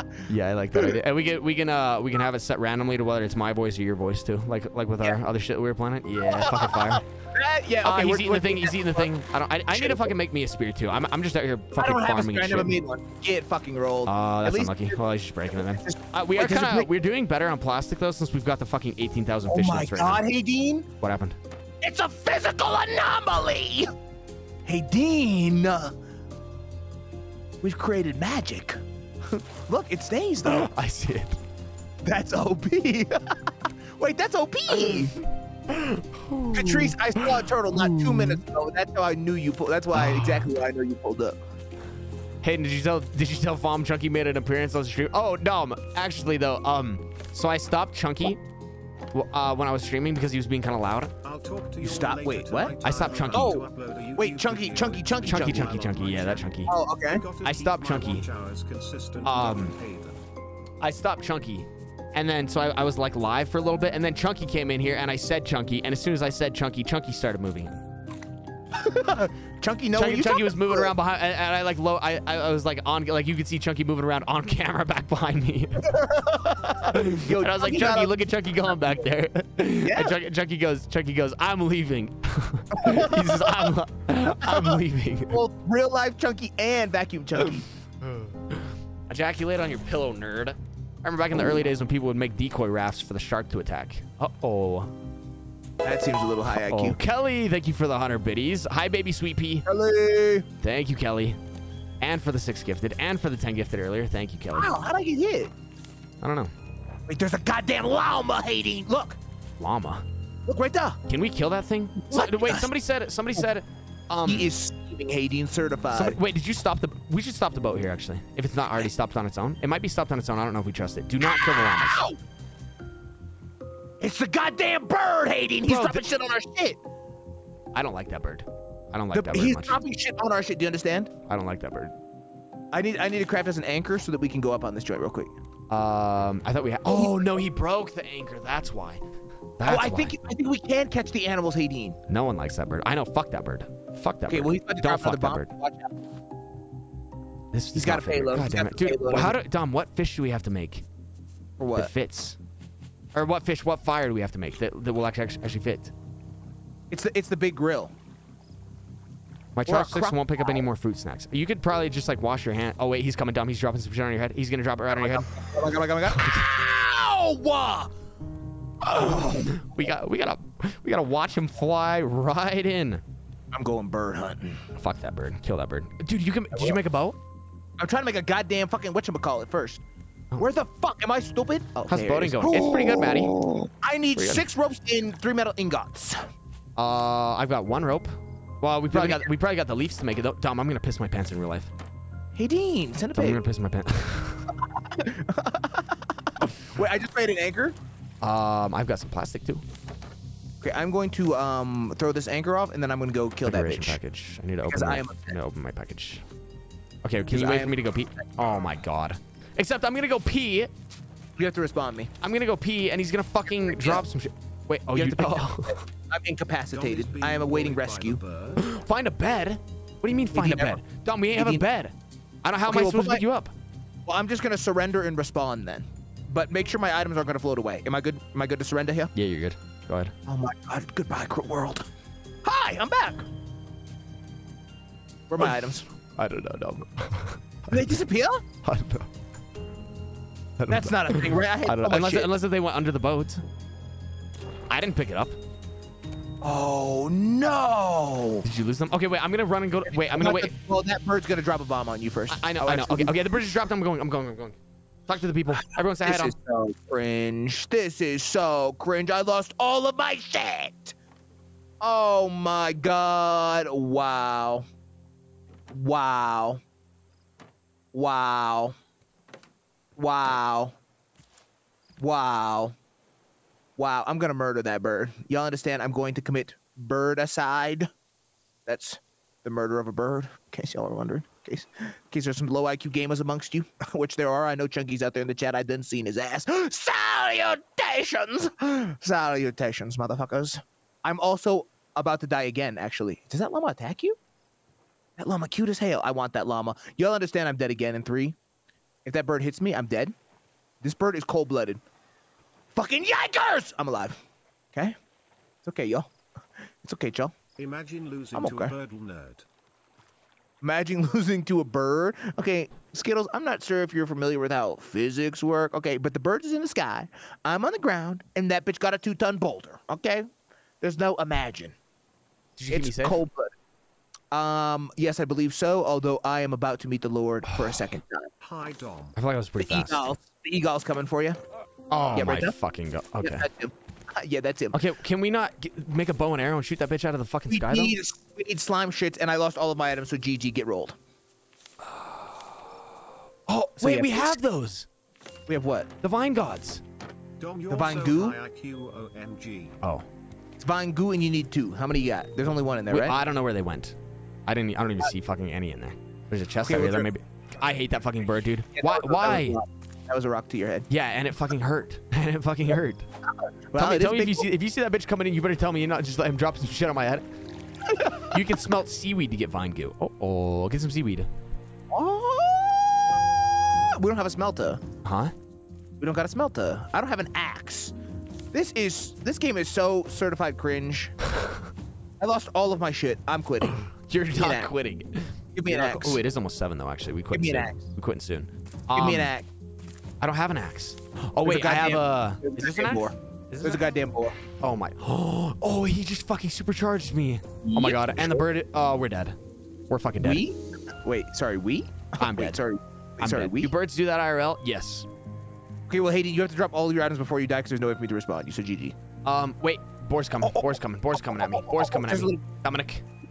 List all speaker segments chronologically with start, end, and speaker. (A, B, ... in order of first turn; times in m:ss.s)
0:00.3-0:07.0 A
0:06.2-0:09.1 B
0:07.8-0:12.8 A
0:09.7-0:10.2 B
0:11.7-0:15.0 B
0:14.1-0:20.2 A
0:15.5-0:16.9 B
0:19.5-0:20.9 B
0:21.0-0:21.4 A
0:21.8-0:23.9 B
0:24.6-0:26.0 B
0:27.6-0:30.7 B
0:30.5-0:31.4 A
0:32.0-0:35.2 B
0:35.7-0:38.4 A
0:36.5-0:41.4 B
0:39.9-0:40.5 A
0:42.4-0:48.4 A
0:49.1-0:51.1 A
0:51.2-1:00.2 C
0:51.8-0:55.9 B
0:52.8-0:53.6 A
0:55.2-0:56.8 A
0:56.7-0:57.2 B
0:57.4-0:58.3 A
0:59.2-0:59.8 A
1:00.8-1:07.8 A
1:08.8-1:10.9 B
1:10.0-1:16.0 A
1:15.8-1:18.2 B
1:16.7-1:25.4 A
1:19.8-1:20.2 B
1:22.8-1:23.7 B
1:24.4-1:27.7 B
1:28.0-1:34.9 A
1:31.3-1:31.6 B
1:35.8-1:37.0 B
1:36.6-1:39.7 A
1:39.7-1:40.5 B
1:40.6-1:41.4 A
1:42.0-1:44.8 A
1:44.6-1:45.5 B
1:46.2-1:46.5 A
1:47.1-1:49.2 B
1:49.6-1:50.0 A
1:50.5-1:51.0 B
1:51.1-1:54.5 A
1:52.1-1:52.7 B
1:54.3-1:56.2 B
1:55.9-2:02.1 A
2:01.2-2:02.2 B
2:04.0-2:06.8 B
2:05.6-2:06.0 A
2:07.7-2:09.8 A
2:09.1-2:11.1 B
2:11.3-2:12.0 A
2:12.7-2:15.3 B
2:15.7-2:19.0 A
2:16.9-2:17.2 B
2:19.6-2:20.1 A
2:19.6-2:22.0 B
2:22.1-2:25.5 A
2:24.3-2:26.0 B
2:27.5-2:30.8 A
2:27.7-2:29.4 B
2:31.6-2:31.9 B
2:31.7-2:32.4 A
2:33.1-2:35.9 A
2:36.9-2:37.9 B
2:39.6-2:45.3 A
2:39.7-2:40.6 B
2:44.9-2:47.9 B
2:46.1-2:46.4 A
2:48.8-2:53.0 A
2:48.9-2:49.6 B
2:53.5-2:54.7 B
2:54.7-2:57.2 A
2:57.8-2:59.8 B
3:00.4-3:06.2 B
3:01.9-3:03.4 A
3:04.2-3:04.4 A
3:06.8-3:11.7 A
3:08.9-3:09.3 B
3:12.4-3:13.4 B
3:13.1-3:14.5 A
3:14.6-3:17.8 B
3:18.2-3:19.6 A
3:20.6-3:24.0 B
3:23.4-3:26.2 A
3:24.7-3:25.4 B
3:27.0-3:30.7 A
3:27.3-3:28.2 B
3:31.4-3:32.1 B
3:32.2-3:35.8 A
3:33.5-3:34.0 B
3:34.9-3:38.2 B
3:36.7-3:38.7 C
3:38.6-3:43.5 A
3:40.3-3:40.8 B
3:41.3-3:41.7 B
3:42.7-3:43.3 B
3:44.1-3:49.1 B
3:49.2-3:50.1 A
3:50.3-3:51.9 B
3:52.4-3:53.3 B
3:55.3-3:55.9 B
3:56.1-3:57.9 A
3:57.7-3:58.4 B
3:58.6-3:59.1 A
4:00.6-4:03.4 A
4:00.7-4:02.3 B
4:04.7-4:05.4 A
4:06.4-4:08.4 B
4:08.4-4:10.5 A
4:09.9-4:13.2 B
4:12.3-4:14.6 A
4:15.1-4:16.4 A
4:15.6-4:21.0 B
4:21.8-4:24.6 B
4:25.7-4:26.6 B
4:27.9-4:28.8 B
4:30.0-4:30.8 B
4:32.0-4:32.8 B
4:33.8-4:37.9 B
4:38.7-4:54.2 B
4:55.2-4:58.4 B
4:59.0-5:00.2 B
5:00.8-5:01.8 B
5:02.7-5:04.2 B
5:05.6-5:06.1 B
5:06.6-5:07.4 B
5:07.6-5:09.5 C
5:08.3-5:08.8 B
5:10.6-5:20.3 B
5:20.8-5:21.8 B
5:22.6-5:23.2 A
5:22.7-5:23.6 B
5:24.3-5:28.3 B
5:27.5-5:27.8 A
5:28.4-5:29.2 C
5:29.2-5:30.1 A
5:29.6-5:31.4 B
5:31.9-5:33.5 A
5:32.1-5:32.6 B
5:33.2-5:34.8 B
5:34.7-5:38.0 A
5:37.5-5:41.0 B
5:41.8-5:42.6 A
5:43.5-5:44.9 A
5:43.8-5:44.4 B
5:45.5-5:45.9 B
5:46.0-5:46.8 A
5:47.4-5:49.8 C
5:47.7-5:48.4 B
5:50.6-5:53.2 B
5:52.9-5:59.6 A
5:56.6-5:57.1 B
5:58.8-6:00.9 B
6:00.9-6:03.1 A
6:03.7-6:04.5 B
6:03.8-6:07.2 A
6:07.9-6:08.4 B
6:08.3-6:11.3 A
6:11.9-6:14.8 B
6:15.0-6:15.3 A
6:16.0-6:18.0 B
6:18.5-6:21.2 B
6:22.2-6:23.8 B
6:23.9-6:29.3 A
6:24.3-6:24.7 B
6:25.6-6:26.2 B
6:27.3-6:27.8 B
6:28.9-6:29.5 B
6:30.2-6:33.8 A
6:31.4-6:34.4 B
6:34.5-6:39.4 A
6:37.6-6:38.4 B
6:39.9-6:40.4 A
6:40.2-6:43.7 B
6:42.2-6:42.6 A
6:43.2-6:45.1 A
6:45.9-6:49.0 B
6:49.2-6:53.0 A
6:50.4-6:52.4 B